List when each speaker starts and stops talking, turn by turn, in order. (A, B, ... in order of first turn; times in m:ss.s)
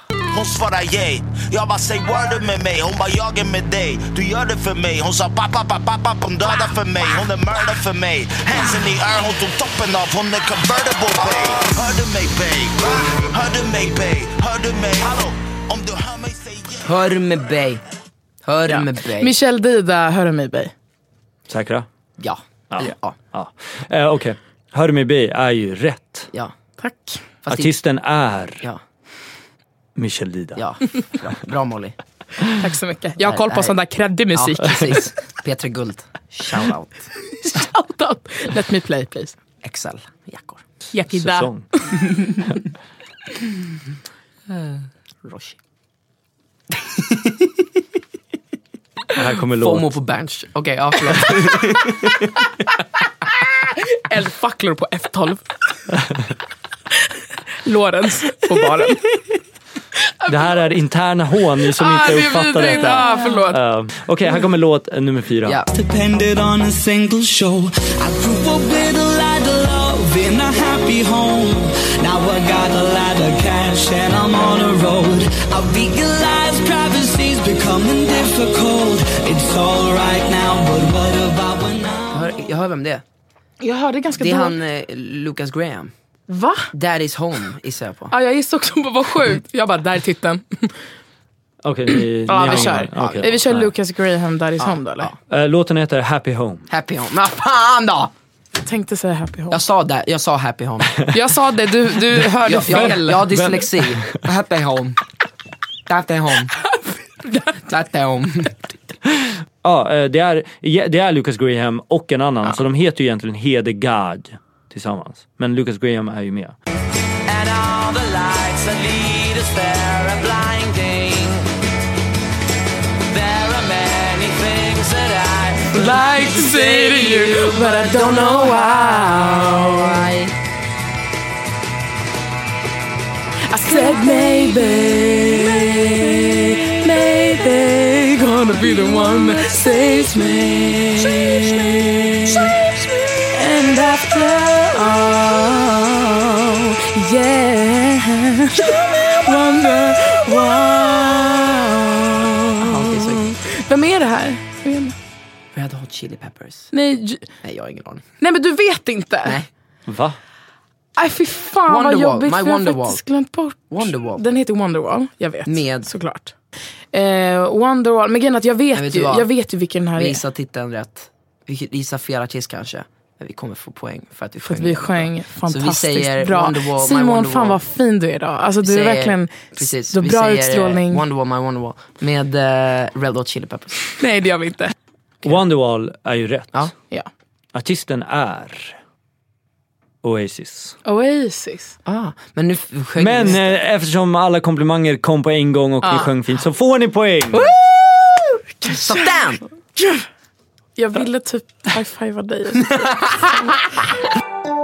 0:00.3-0:16.8 A
0:16.8-0:17.8 B
0:18.4-0:19.3 B
0:18.7-0:20.7 C
0:21.5-0:21.9 D
0:22.2-0:23.2 B
0:22.7-0:26.3 D
0:26.8-0:27.2 C
0:27.4-0:27.7 B
0:27.5-0:28.6 D
0:30.0-0:30.6 D
0:30.6-0:32.0 B
0:32.5-0:35.1 C
0:33.2-0:33.7 B
0:34.3-0:37.1 B
0:37.3-0:39.4 C
0:39.6-0:40.6 B
0:40.9-0:42.0 C
0:41.1-0:41.7 D
0:45.2-0:45.6 B
0:46.7-0:47.7 B
0:49.1-0:49.9 D
0:49.6-0:52.4 B
0:53.6-0:55.6 C
0:57.6-0:59.1 C
1:00.1-1:00.4 C
1:00.3-1:05.6 D
1:01.7-1:03.6 C
1:05.7-1:22.3 E
1:22.1-1:23.0 B
1:23.6-1:24.6 C
1:24.2-1:25.9 B
1:26.3-1:26.7 C
1:26.7-1:28.1 B
1:28.1-1:30.7 C
1:31.6-1:33.7 D
1:32.2-1:35.1 C
1:32.4-1:33.3 B
1:34.6-1:35.2 B
1:35.3-1:36.6 D
1:36.7-1:38.1 B
1:38.6-1:39.6 C
1:39.5-1:41.1 B
1:41.1-1:43.3 C
1:42.4-1:45.0 B
1:42.7-1:44.2 D
1:45.9-1:46.5 B
1:47.2-1:47.6 C
1:47.7-1:48.8 B
1:49.6-1:56.6 D
1:57.2-2:01.5 F
2:03.1-2:08.0 F
2:05.7-2:10.1 C
2:07.8-2:10.3 B
2:13.5-2:22.6 C
2:14.0-2:16.6 B
2:18.8-2:20.0 B
2:21.0-2:21.6 B
2:23.3-2:35.0 C
2:32.6-2:33.3 B
2:35.5-2:36.7 B
2:36.7-2:37.3 C
2:37.4-2:38.0 B
2:38.2-2:39.4 C
2:39.9-2:40.2 D
2:41.0-2:46.3 C
2:41.7-2:43.0 B
2:43.7-2:44.2 B
2:45.4-2:45.9 B
2:46.9-2:50.2 C
2:48.7-2:49.3 B
2:50.0-2:57.6 B
2:54.4-3:01.0 C
2:58.6-3:03.9 B
3:04.0-3:04.7 C
3:05.2-3:06.7 D
3:07.5-3:08.8 D
3:10.0-3:10.8 D
3:10.8-3:11.8 C
3:11.8-3:13.5 B
3:13.0-3:17.5 D
3:15.8-3:16.1 C
3:17.3-3:19.1 C
3:18.6-3:19.4 B
3:19.8-3:20.0 C
3:20.8-3:23.2 C
3:22.8-3:23.5 B